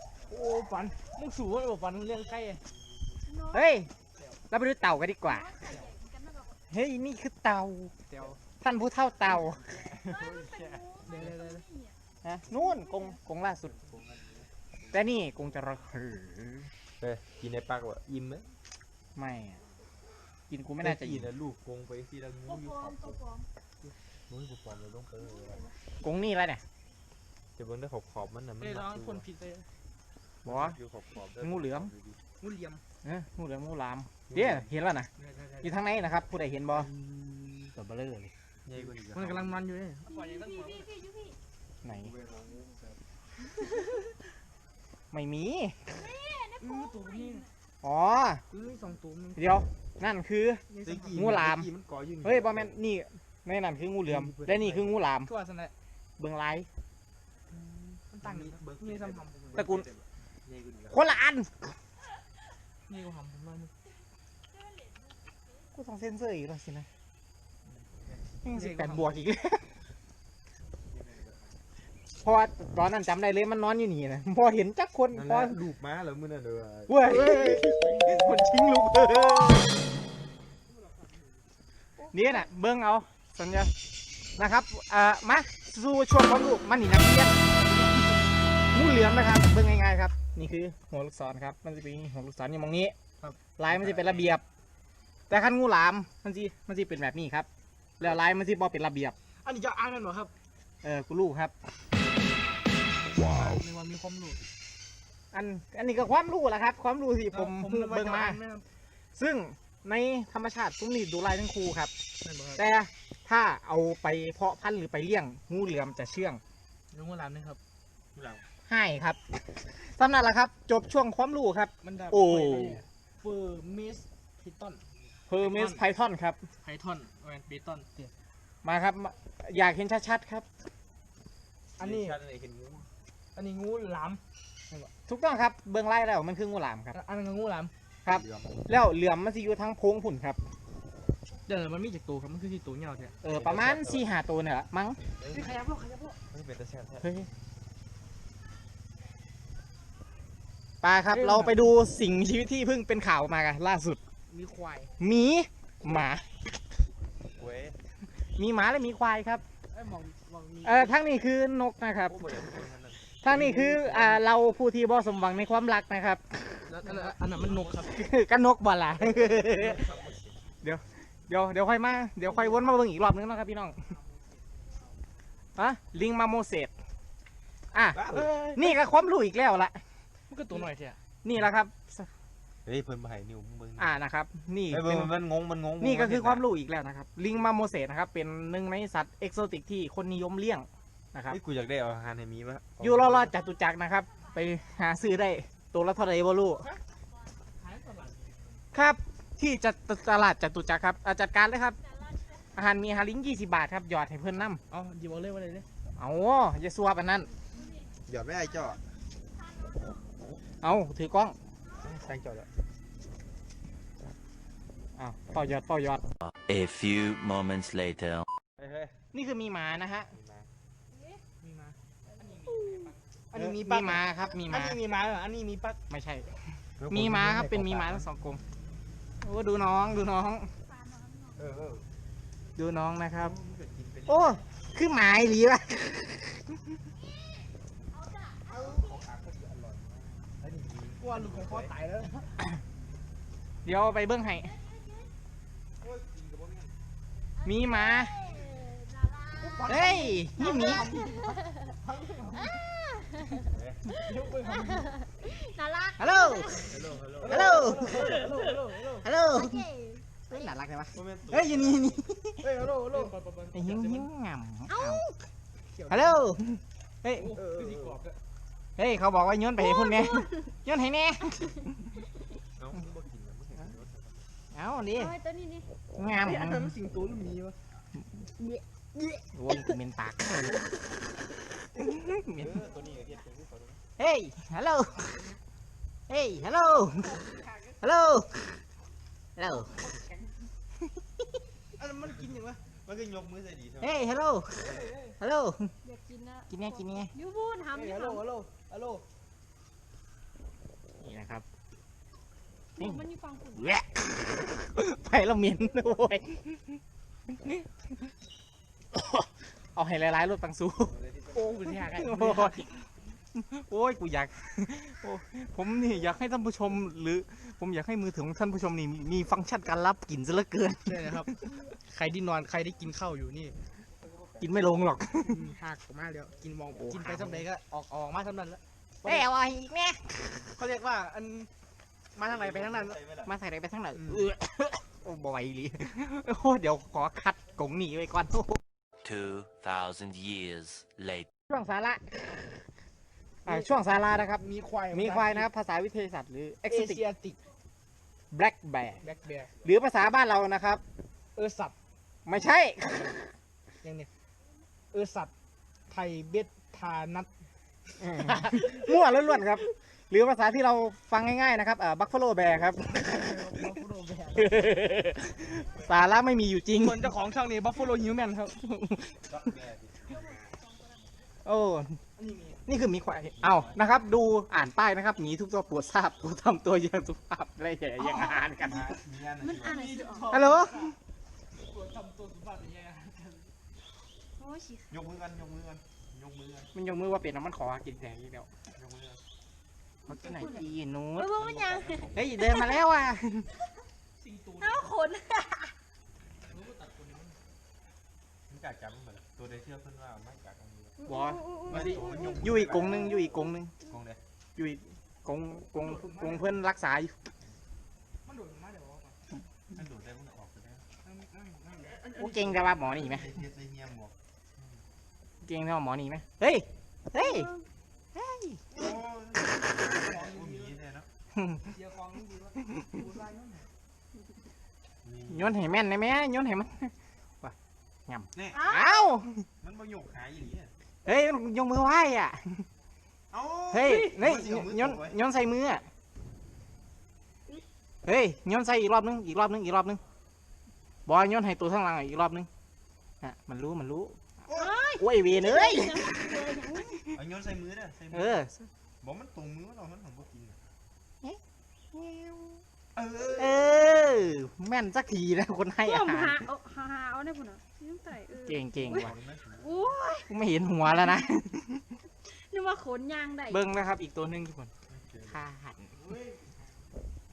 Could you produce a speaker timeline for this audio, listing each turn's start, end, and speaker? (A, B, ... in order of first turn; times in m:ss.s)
0:00.3-0:02.6 A
0:02.7-0:03.1 B
0:03.2-0:03.7 C
0:03.5-0:03.9 D
0:04.5-0:05.6 D
0:05.2-0:06.6 C
0:06.7-0:08.0 D
0:08.1-0:08.4 A
0:08.6-0:09.6 D
0:09.6-0:11.3 B
0:10.0-0:12.0 C
0:11.0-0:11.6 A
0:12.2-0:13.7 D
0:12.5-0:13.2 C
0:13.6-0:15.0 B
0:14.9-0:16.7 D
0:17.0-0:18.5 B
0:19.2-0:19.6 D
0:20.5-0:21.3 D
0:20.8-0:23.2 B
0:22.5-0:23.5 C
0:24.3-0:25.7 B
0:26.0-0:26.6 D
0:27.6-0:29.2 B
0:28.6-0:29.7 A
0:30.4-0:30.8 D
0:30.4-0:32.2 B
0:31.4-0:31.9 D
0:32.4-0:32.8 A
0:33.0-0:35.1 D
0:34.3-0:34.7 B
0:35.2-0:35.7 A
0:35.6-0:36.9 D
0:36.7-0:37.6 B
0:37.7-0:38.3 D
0:38.6-0:39.6 B
0:39.0-0:40.9 A
0:40.1-0:41.4 C
0:41.8-0:42.1 D
0:41.8-0:43.0 B
0:45.1-0:45.9 D
0:45.9-0:47.5 C
0:46.6-0:47.4 A
0:47.8-0:48.4 D
0:48.5-0:49.6 A
0:49.4-0:51.7 D
0:50.7-0:51.3 A
0:50.8-0:52.8 B
0:52.2-0:55.3 D
0:54.1-0:54.9 B
0:55.2-0:55.7 A
0:56.2-0:56.7 D
0:57.5-0:59.7 A
0:58.2-1:01.0 B
0:59.6-0:59.9 D
1:00.9-1:01.7 D
1:02.9-1:03.7 A
1:04.5-1:05.1 C
1:05.8-1:06.9 D
1:08.0-1:08.6 B
1:08.4-1:09.7 D
1:08.5-1:09.2 A
1:10.8-1:11.6 B
1:12.2-1:15.6 D
1:15.1-1:18.4 B
1:16.9-1:19.8 D
1:20.7-1:21.5 A
1:22.1-1:23.7 D
1:24.4-1:27.4 D
1:27.4-1:28.3 A
1:28.7-1:32.9 D
1:33.2-1:34.2 A
1:33.6-1:34.4 D
1:35.3-1:37.5 D
1:38.0-1:39.2 D
1:39.4-1:40.3 A
1:40.8-1:41.5 D
1:43.2-1:44.4 A
1:45.3-1:48.4 D
1:47.3-1:48.7 A
1:49.2-1:51.9 D
1:52.2-1:52.6 A
1:52.6-1:56.4 D
1:56.9-1:57.6 A
1:58.1-1:58.4 B
1:58.7-2:02.8 D
2:01.8-2:05.8 A
2:05.3-2:06.4 D
2:06.6-2:08.1 A
2:08.6-2:10.5 D
2:11.8-2:12.2 A
2:11.8-2:12.9 B
2:13.4-2:14.9 A
2:15.1-2:17.0 D
2:16.9-2:17.7 A
2:18.0-2:20.4 D
2:18.1-2:18.6 B
2:21.5-2:23.2 A
2:23.2-2:25.0 D
2:23.3-2:24.1 B
2:25.2-2:25.5 B
2:25.3-2:26.2 A
2:26.3-2:27.1 B
2:27.0-2:27.3 D
2:30.8-2:34.0 D
2:31.1-2:31.7 A
2:34.3-2:34.9 A
2:35.0-2:36.3 D
2:37.3-2:37.8 B
2:38.4-2:39.4 D
2:39.7-2:41.0 A
2:40.6-2:42.4 D
2:42.0-2:44.2 B
2:43.2-2:47.1 D
2:43.4-2:44.2 A
2:46.6-2:48.0 A
2:47.4-2:47.8 B
2:47.9-2:49.9 D
2:49.0-2:50.5 B
2:50.6-2:53.8 D
2:53.8-2:54.7 A
2:55.6-2:56.7 D
2:57.7-2:59.8 D
2:57.9-2:58.6 B
2:58.1-2:58.6 A
3:00.3-3:01.0 A
3:01.2-3:02.1 D
3:02.7-3:03.9 B
3:03.8-3:05.1 D
3:04.7-3:06.4 B
3:05.8-3:11.4 D
3:11.3-3:13.4 B
3:12.8-3:16.8 D
3:14.1-3:15.1 C
3:17.6-3:18.7 A
3:18.7-3:21.8 D
3:21.8-3:22.5 C
3:22.6-3:24.6 D
3:24.7-3:25.7 A
3:26.0-3:27.3 D
3:27.5-3:27.9 C
3:28.0-3:28.8 B
3:29.4-3:30.0 C
3:30.6-3:31.4 D
3:31.8-3:32.5 B
3:35.0-3:36.0 D
3:36.2-3:38.3 E
3:38.6-3:39.0 B
3:39.1-3:40.1 D
3:40.1-3:40.5 B
3:40.9-3:41.2 C
3:41.4-3:45.8 A
3:42.1-3:43.0 C
3:43.3-3:44.8 D
3:45.9-3:48.4 D
3:46.8-3:48.1 B
3:49.2-3:50.5 D
3:50.6-3:51.4 C
3:51.4-3:51.9 B
3:52.6-3:53.4 D
3:53.1-3:54.4 B
3:54.1-3:56.7 D
3:57.2-3:59.0 C
3:58.5-4:01.7 B
4:01.0-4:02.3 A
4:03.6-4:04.5 D
4:04.4-4:05.1 C
4:05.8-4:06.7 B
4:07.4-4:11.6 C
4:07.4-4:08.2 D
4:09.4-4:12.6 A
4:09.7-4:10.9 D
4:12.3-4:16.8 C
4:13.4-4:13.8 B
4:13.9-4:15.0 A
4:16.0-4:16.7 D
4:16.6-4:18.3 B
4:17.2-4:19.1 A
4:17.3-4:17.9 D
4:17.6-4:18.6 C
4:19.0-4:19.6 D
4:19.2-4:20.5 C
4:20.3-4:22.5 D
4:20.9-4:22.0 B
4:22.4-4:24.1 A
4:22.9-4:23.2 B
4:23.5-4:25.0 D
4:24.7-4:25.1 C
4:25.7-4:26.4 A
4:25.9-4:27.3 D
4:27.2-4:28.2 A
4:27.4-4:28.0 B
4:28.8-4:31.8 D
4:29.6-4:30.5 C
4:32.6-4:34.2 B
4:34.5-4:35.1 D
4:35.0-4:35.7 C
4:36.0-4:36.8 D
4:36.2-4:37.6 A
4:38.4-4:39.2 C
4:39.3-4:40.7 D
4:41.8-4:42.6 D
4:42.4-4:43.8 B
4:44.0-4:45.2 D
4:46.1-4:47.2 D
4:47.2-4:47.4 C
4:47.8-4:48.6 D
4:49.4-4:49.8 D
4:49.8-4:50.2 A
4:51.8-4:52.6 A
4:52.7-4:54.0 B
4:53.8-4:55.7 D
4:54.6-4:55.2 A
4:54.6-4:55.0 B
4:55.8-4:58.2 C
4:56.5-4:57.1 D
4:57.7-4:59.0 A
5:01.0-5:01.4 D
5:02.8-5:03.8 C
5:03.6-5:08.1 D
5:08.9-5:11.0 D
5:10.9-5:11.9 B
5:11.3-5:12.6 A
5:11.7-5:21.1 D
5:20.9-5:23.6 A
5:24.0-5:24.8 B
5:24.4-5:25.5 D
5:25.3-5:29.3 A
5:26.8-5:27.5 D
5:29.0-5:30.3 D
5:30.6-5:31.5 A
5:32.2-5:33.0 A
5:32.2-5:33.3 B
5:33.3-5:38.6 D
5:34.0-5:34.2 A
5:39.0-5:41.3 E
5:41.5-5:42.4 D
5:43.5-5:47.0 D
5:44.4-5:45.5 A
5:46.7-5:47.4 A
5:48.3-5:49.0 D
5:49.0-5:49.5 A
5:49.0-5:49.7 B
5:49.6-5:50.8 D
5:51.4-5:51.8 A
5:52.3-5:53.3 D
5:53.8-5:54.1 A
5:54.9-5:55.3 A
5:55.9-5:57.3 A
5:58.0-6:03.6 D
5:58.1-5:59.0 A
6:02.9-6:04.9 A
6:04.4-6:07.1 D
6:05.4-6:06.1 B
6:06.7-6:08.6 A
6:08.6-6:09.2 D
6:09.3-6:10.6 B
6:10.1-6:11.1 C
6:11.4-6:12.0 D
6:12.2-6:12.7 A
6:12.7-6:19.0 D
6:13.4-6:14.0 B
6:18.6-6:20.1 B
6:19.4-6:20.6 C
6:19.6-6:21.0 A
6:20.3-6:21.0 D
6:21.6-6:23.5 A
6:24.4-6:24.9 C
6:24.9-6:26.7 B
6:26.7-6:28.5 D
6:28.7-6:29.2 B
6:30.1-6:31.3 D
6:30.1-6:30.7 C
6:31.2-6:32.8 C
6:31.3-6:32.4 B
6:32.1-6:33.5 D
6:34.2-6:34.9 A
6:34.6-6:35.7 C
6:36.5-6:37.4 A
6:38.5-6:41.0 B
6:41.0-6:42.5 C
6:41.1-6:43.7 D
6:41.7-6:44.2 B
6:44.6-6:47.2 D
6:45.8-6:46.6 A
6:48.2-6:49.2 A
6:49.7-6:50.8 B
6:51.0-6:52.8 A
6:52.2-6:53.3 D
6:52.7-6:54.7 B
6:55.4-6:57.5 D
6:57.2-6:57.6 C
6:58.2-6:58.6 D
6:58.7-7:01.1 B
6:59.8-7:00.8 A
7:01.4-7:01.6 D
7:01.7-7:03.7 A
7:05.0-7:05.6 B
7:05.3-7:07.6 D
7:08.1-7:09.4 D
7:08.3-7:08.6 B
7:08.5-7:09.2 C
7:09.6-7:10.8 B
7:11.0-7:12.7 D
7:13.3-7:15.2 B
7:13.7-7:15.9 D
7:18.0-7:20.0 D
7:21.1-7:22.5 D
7:23.2-7:24.3 D
7:24.5-7:24.8 B
7:24.5-7:26.9 C
7:25.0-7:27.1 D
7:27.1-7:28.5 B
7:28.1-7:28.7 D
7:29.0-7:30.6 B
7:31.9-7:32.6 D
7:32.9-7:34.5 B
7:33.4-7:36.5 D
7:35.8-7:40.3 C
7:38.4-7:39.1 D
7:38.8-7:40.0 B
7:40.3-7:41.8 D
7:42.2-7:43.8 C
7:43.5-7:44.7 D
7:44.9-7:45.4 B
7:45.3-7:46.0 D
7:46.0-7:46.7 A